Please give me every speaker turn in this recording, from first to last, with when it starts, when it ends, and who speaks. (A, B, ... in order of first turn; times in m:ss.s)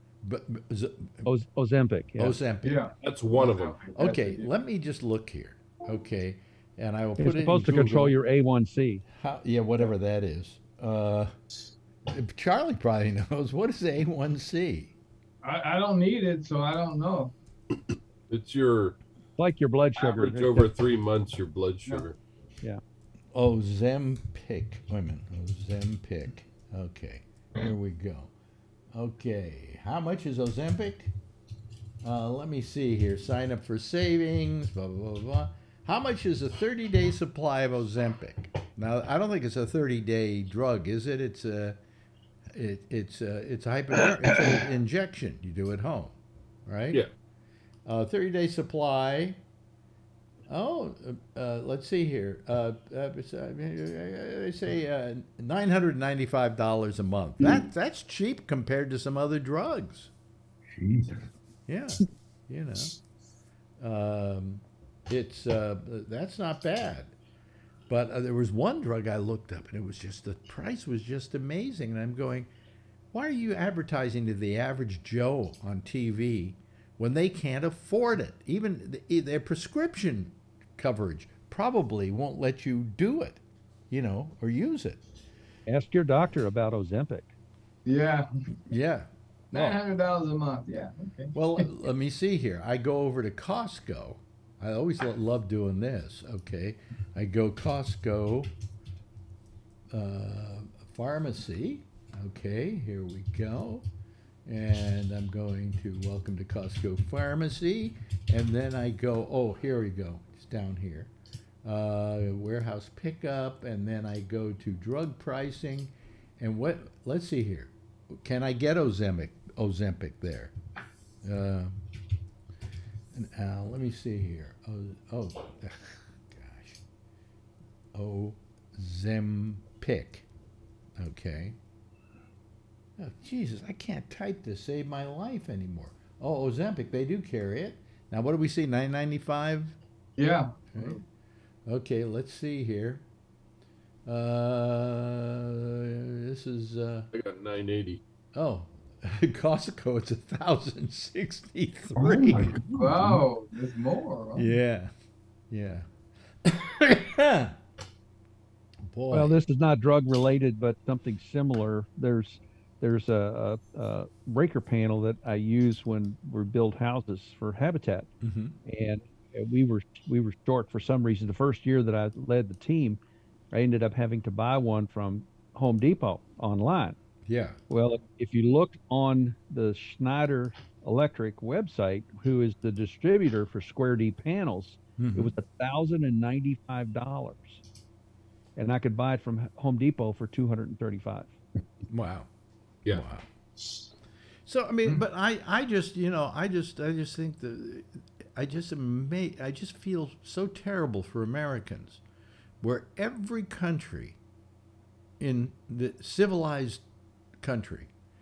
0:00.2-0:01.3 A
0:01.2-0:02.4 B
0:02.2-0:02.8 A
0:02.6-0:04.5 C
0:03.0-0:03.9 D
0:03.9-0:08.2 A
0:07.2-0:09.0 B
0:09.1-0:11.3 A
0:12.1-0:14.9 A
0:15.4-0:17.3 C
0:18.3-0:19.0 D
0:19.4-0:20.7 B
0:20.0-0:22.2 D
0:23.3-0:28.3 A
0:28.9-0:31.1 A
0:32.0-0:41.8 A
0:42.5-0:46.1 A
0:46.6-0:47.0 A
0:47.8-0:49.4 A
0:50.5-1:00.1 A
0:57.4-0:57.7 E
1:00.7-1:01.3 E
1:01.7-1:03.0 A
1:03.8-1:07.1 A
1:07.9-1:12.5 A
1:13.1-1:25.0 A
1:25.7-1:27.3 B
1:27.8-1:28.3 C
1:28.7-1:29.8 A
1:29.5-1:31.7 C
1:31.3-1:38.5 A
1:39.9-1:43.8 A
1:44.4-1:51.1 A
1:51.6-2:00.5 A
2:01.2-2:01.8 A
2:03.1-2:06.8 A
2:07.9-2:10.2 A
2:11.0-2:11.6 A
2:13.0-2:19.8 A
2:20.2-2:21.0 C
2:20.7-2:21.0 A
2:21.7-2:23.0 A
2:24.1-2:27.1 A
2:27.1-2:28.0 D
2:28.3-2:32.6 A
2:32.0-2:33.2 E
2:32.7-2:34.5 C
2:34.4-2:34.9 A
2:35.5-2:35.9 A
2:36.4-2:37.6 A
2:38.8-2:39.4 A
2:39.1-2:48.1 B
2:48.2-2:48.6 A
2:48.6-2:53.0 B
2:53.5-2:57.0 B
2:57.2-2:57.6 A
2:57.7-3:07.6 B
3:05.0-3:05.3 A
3:08.6-3:11.3 B
3:11.9-3:12.3 A
3:12.9-3:13.2 A
3:14.4-3:22.0 A
3:22.6-3:24.2 A
3:25.2-3:26.8 A
3:27.4-3:27.9 A